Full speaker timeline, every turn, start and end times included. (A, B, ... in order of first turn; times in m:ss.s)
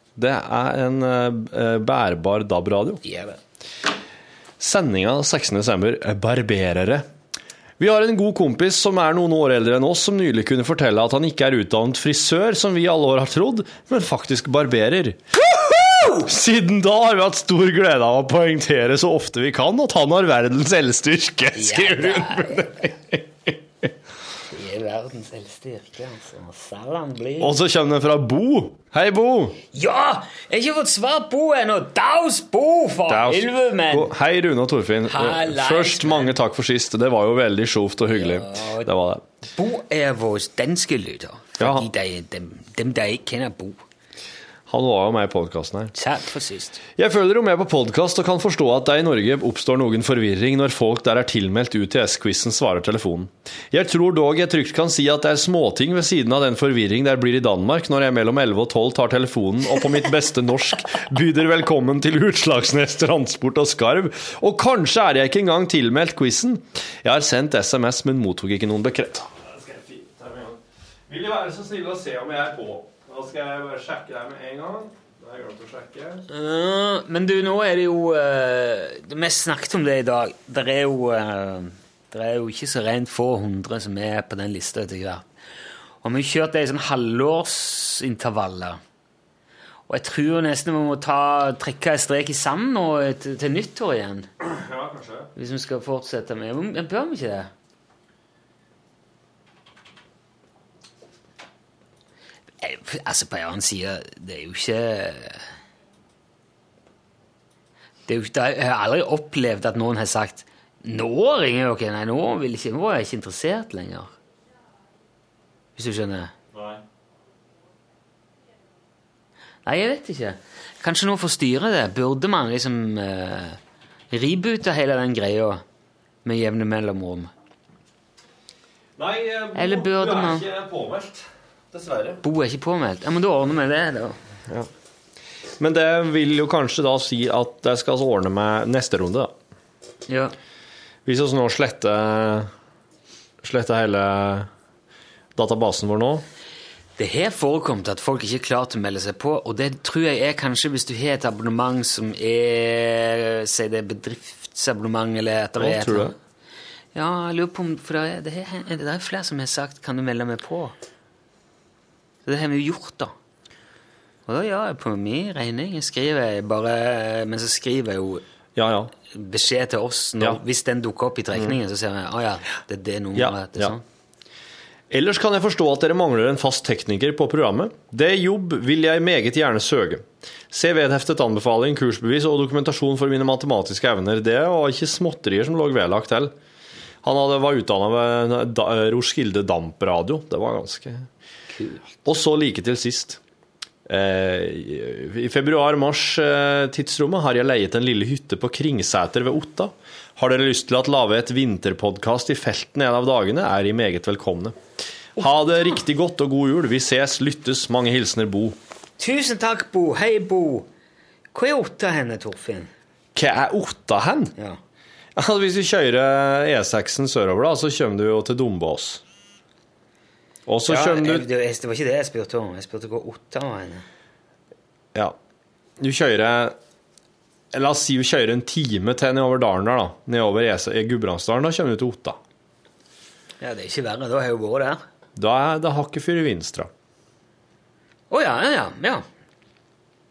0:00.2-0:03.0 A
0:03.0-0:03.4 B
0:04.6-0:07.0 A
0:07.8-0:15.2 A
0:15.6-0:16.3 B
0:16.0-0:23.9 A
0:21.5-0:22.7 B
0:24.5-0:27.5 B
0:27.4-0:29.6 A
0:29.7-0:34.1 B
0:33.1-0:39.2 A
0:35.0-0:36.3 B
0:38.1-0:38.9 B
0:39.5-0:43.8 B
0:41.6-0:41.9 A
0:44.7-0:45.9 A
0:45.9-0:46.8 B
0:47.0-1:16.2 A
1:16.3-1:25.2 B
1:26.0-1:28.8 B
1:29.9-1:34.3 B
1:34.4-1:35.3 A
1:35.4-1:37.5 B
1:42.6-1:45.5 B
1:48.1-1:54.1 B
1:55.8-1:56.3 B
1:56.5-1:56.8 A
1:59.6-2:03.6 B
2:04.1-2:05.6 B
2:06.2-2:07.3 B
2:09.0-2:12.2 A
2:09.5-2:10.4 B
2:12.2-2:14.2 B
2:15.6-2:19.3 A
2:20.1-2:20.3 B
2:21.0-2:22.5 A
2:23.4-2:24.5 A
2:25.4-2:26.2 A
2:27.0-2:36.1 B
2:35.6-2:36.1 A
2:36.9-2:40.7 B
2:42.2-2:43.1 B
2:44.2-2:48.2 B
2:48.6-2:48.9 A
2:49.1-2:53.8 B
2:53.1-2:53.7 A
2:54.9-3:06.3 A
3:07.0-3:11.1 A
3:11.5-3:11.9 B
3:12.0-3:13.2 A
3:13.8-3:24.6 A
3:25.2-3:28.6 A
3:25.2-3:25.8 B
3:29.0-3:30.7 B
3:31.3-3:32.7 B
3:33.1-3:34.3 A
3:35.2-3:39.0 A
3:40.5-3:41.2 A
3:40.6-3:43.8 B
3:45.8-3:46.6 A
3:47.5-3:52.2 A
3:53.4-3:54.8 B
3:55.2-3:56.7 A
3:58.1-3:59.0 B